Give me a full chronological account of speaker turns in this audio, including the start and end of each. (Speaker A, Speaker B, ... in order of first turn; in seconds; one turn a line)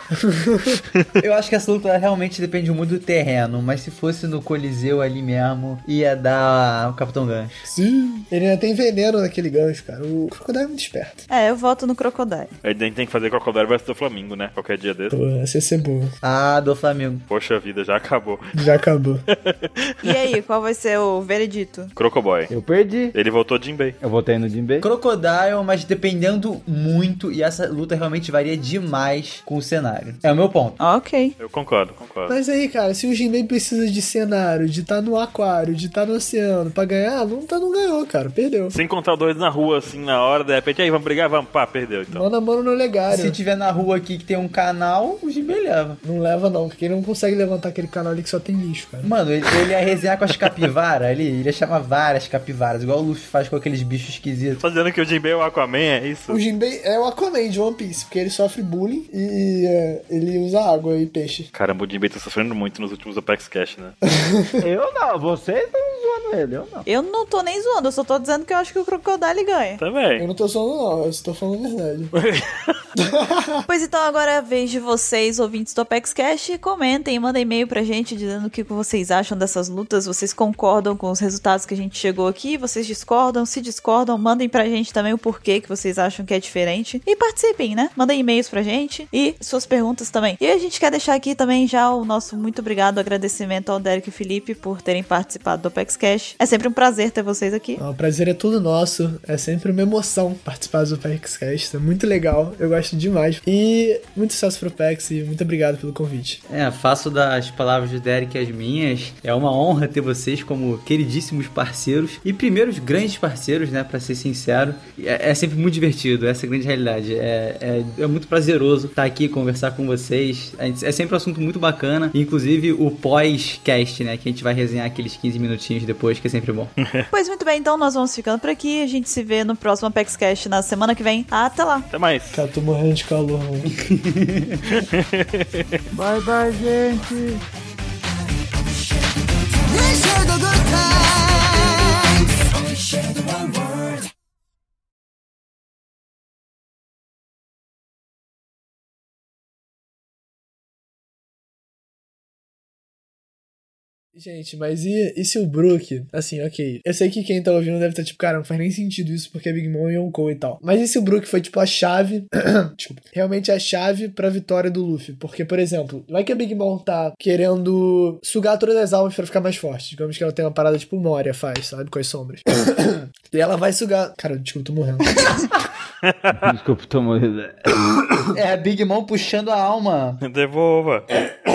Speaker A: 0.2-0.8
Speaker B: 1.2-7.6
Speaker A: 7.7-11.2
Speaker C: 11.3-12.5
Speaker D: 12.6-15.2
Speaker A: 15.1-16.1
Speaker B: 16.2-17.2
Speaker D: 17.3-18.4
Speaker A: 18.5-19.2
Speaker D: 19.3-20.1
Speaker C: 20.0-21.9
Speaker D: 21.9-22.5
Speaker E: 22.5-23.1
Speaker D: 23.1-23.9
Speaker E: 24.0-24.9
Speaker B: 24.8-30.8
Speaker C: 30.8-31.4
Speaker D: 31.4-32.4
Speaker A: 32.3-38.8
Speaker D: 38.7-42.3
Speaker A: 42.1-43.4
Speaker B: 43.1-46.0
Speaker A: 46.0-49.1
Speaker B: 49.0-54.6
Speaker D: 54.6-56.4
Speaker A: 56.3-61.5
Speaker D: 61.5-63.9
Speaker A: 64.1-64.6
Speaker E: 64.6-66.8
Speaker C: 66.8-69.8
Speaker D: 69.8-70.2
Speaker A: 70.2-72.1
Speaker D: 72.1-72.8
Speaker A: 73.0-73.7
Speaker C: 73.7-97.8
Speaker A: 97.8-106.4
Speaker B: 106.5-126.7
Speaker D: 126.8-127.0
Speaker C: 127.1-131.9
Speaker D: 131.9-132.4
Speaker A: 132.3-133.7
Speaker B: 133.8-134.7
Speaker D: 134.7-135.7
Speaker E: 135.9-137.4
Speaker E: 139.8-141.9
Speaker A: 154.2-175.3
Speaker D: 176.0-176.4
Speaker E: 176.4-177.7
Speaker B: 178.3-180.2
Speaker D: 180.2-181.0